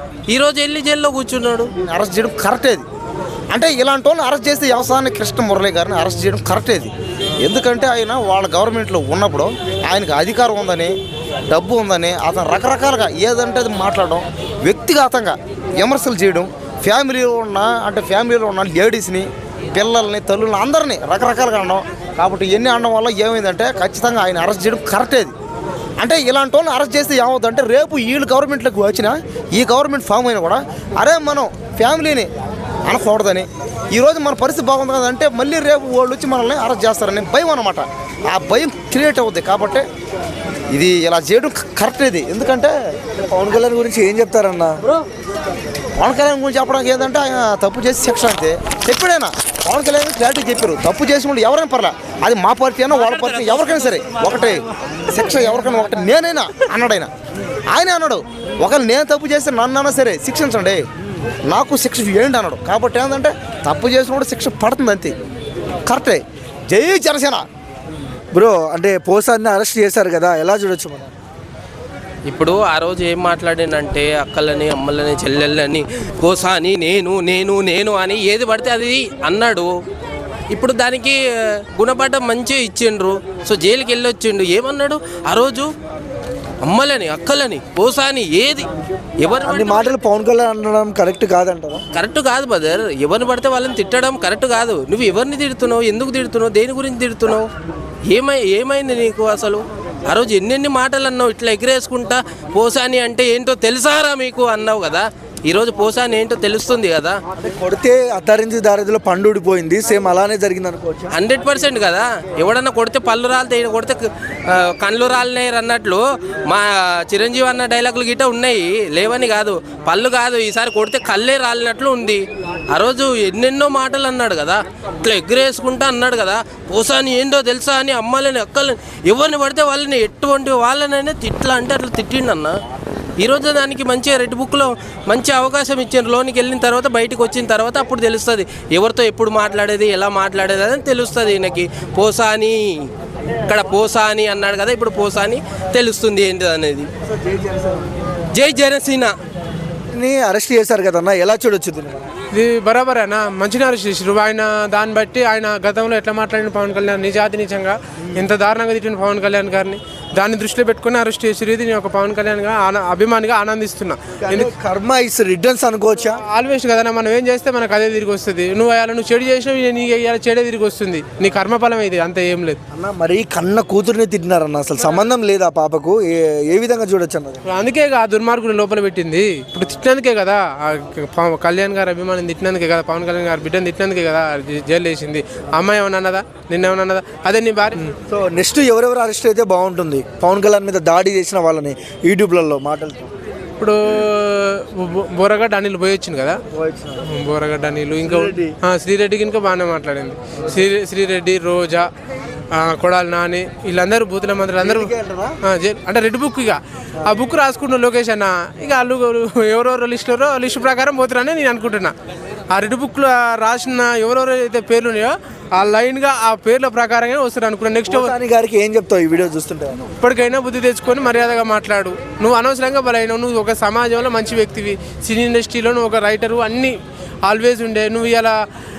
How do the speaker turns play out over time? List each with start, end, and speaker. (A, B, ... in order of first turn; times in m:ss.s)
0:00.3-0:01.7 A
0:01.8-0:02.8 B
0:03.5-0:10.9 B
0:11.5-0:25.3 B
0:26.0-0:32.3 B
0:32.9-0:39.8 B
0:40.7-0:42.7 B
0:43.2-0:44.8 C
0:46.0-0:57.1 B
0:57.7-1:00.8 B
1:01.5-1:05.1 B
1:05.9-1:07.4 B
1:08.3-1:11.1 C
1:12.3-1:19.7 A
1:20.5-1:21.2 A
1:21.7-1:25.7 A
1:26.6-1:28.7 A
1:29.2-1:29.9 A
1:29.4-1:31.8 C
1:31.9-1:37.5 A
1:38.1-1:47.2 A
1:47.4-1:51.1 C
1:51.1-2:12.6 A
2:13.2-2:22.9 A
2:23.5-2:26.9 A
2:27.0-2:27.9 C
2:28.3-2:29.1 A
2:29.9-2:32.1 C
2:32.3-2:44.5 D
2:44.2-2:46.2 C
2:46.1-2:52.6 D
2:52.7-2:57.5 C
2:57.5-3:07.9 D
3:08.1-3:13.1 C
3:13.6-3:16.4 D
3:16.5-3:17.1 C
3:17.1-3:21.9 D
3:18.0-3:18.6 C
3:22.5-3:24.9 D
3:24.6-3:25.4 C
3:25.4-3:32.0 D
3:32.5-3:38.1 D
3:37.9-3:39.8 C
3:40.0-3:48.4 D